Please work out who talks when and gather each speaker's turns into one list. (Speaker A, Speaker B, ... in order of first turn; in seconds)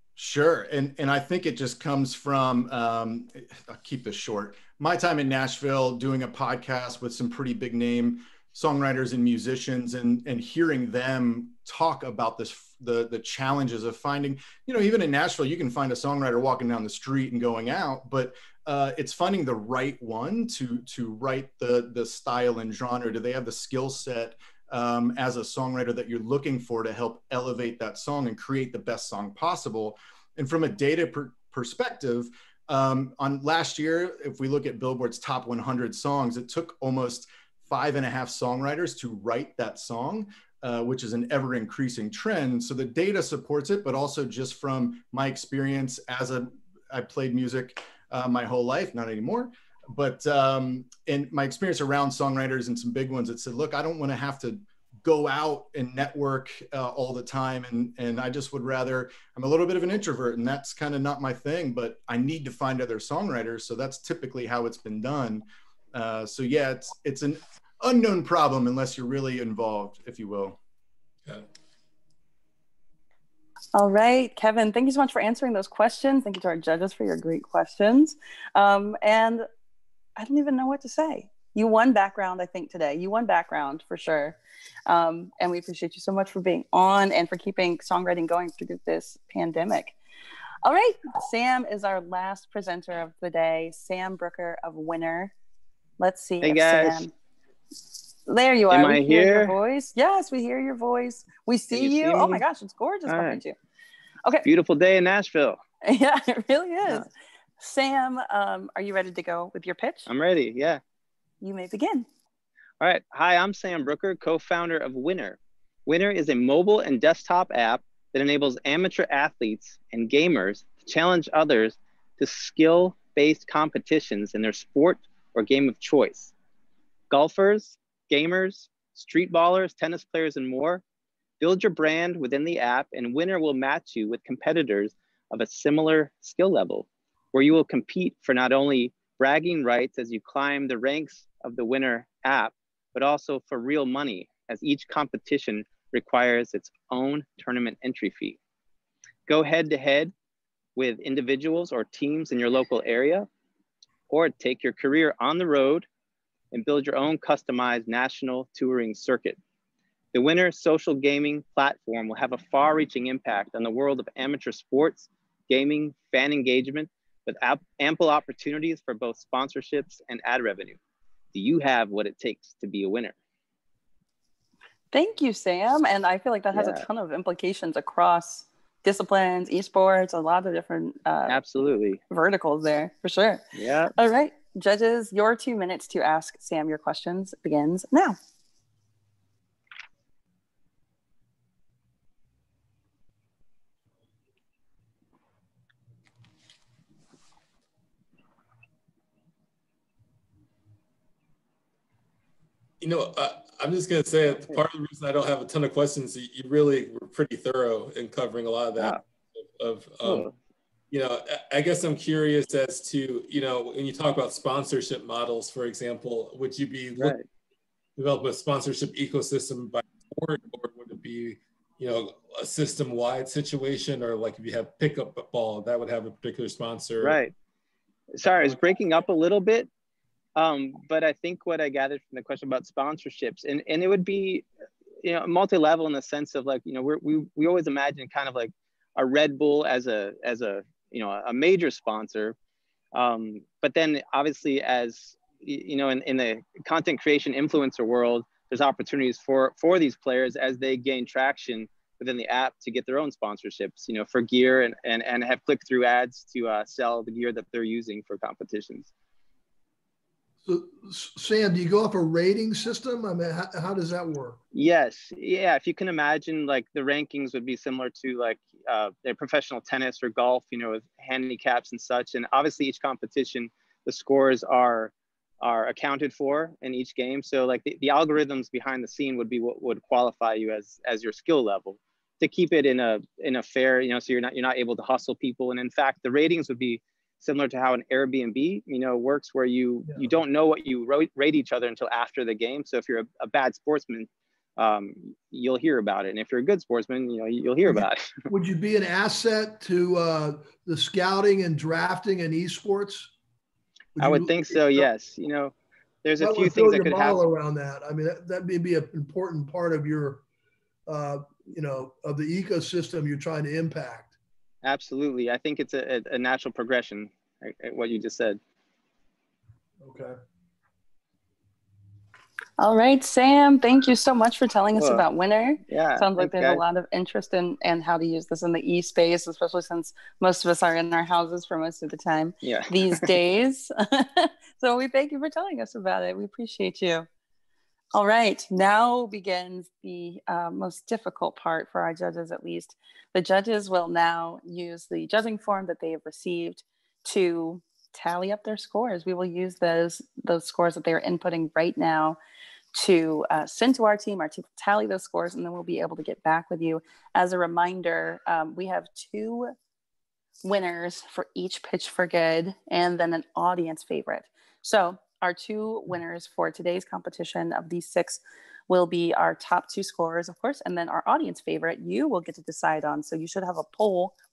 Speaker A: 0.2-70.6
Speaker B: 73.7-79.5, 80.2-89.9, 90.6-95.3, 96.0-97.1, 98.3-103.5, 105.8-107.1, 107.6-110.1, 111.4-112.1, 174.9-181.4, 182.1-188.2, 322.6-337.1, 337.9-352.2, 352.7-359.5, 360.4-374.1
Speaker C: 96.4-97.1, 98.7-99.5, 101.7-102.4, 103.1-103.4, 104.4-105.6, 110.1-110.8, 112.8-126.3, 127.1-130.8, 131.4-148.4, 149.3-150.1, 150.8-153.3, 154.1-155.8, 156.5-159.4, 160.1-170.8, 171.3-173.2, 176.5-176.8, 181.3-182.0, 183.5-183.9, 210.0-210.3, 216.9-217.2, 227.0-227.3, 228.1-229.7, 230.3-234.5, 235.0-242.3, 242.9-258.9, 264.5-298.2, 304.0-307.2, 314.6-318.4, 324.8-325.1, 325.6-326.6, 332.4-333.1
Speaker D: 202.8-210.3, 210.9-217.2, 218.0-227.2, 228.2-228.6
Speaker E: 260.4-264.4, 289.9-290.1, 297.6-303.1, 303.9-304.9, 306.2-310.2, 310.9-314.1, 319.8-320.1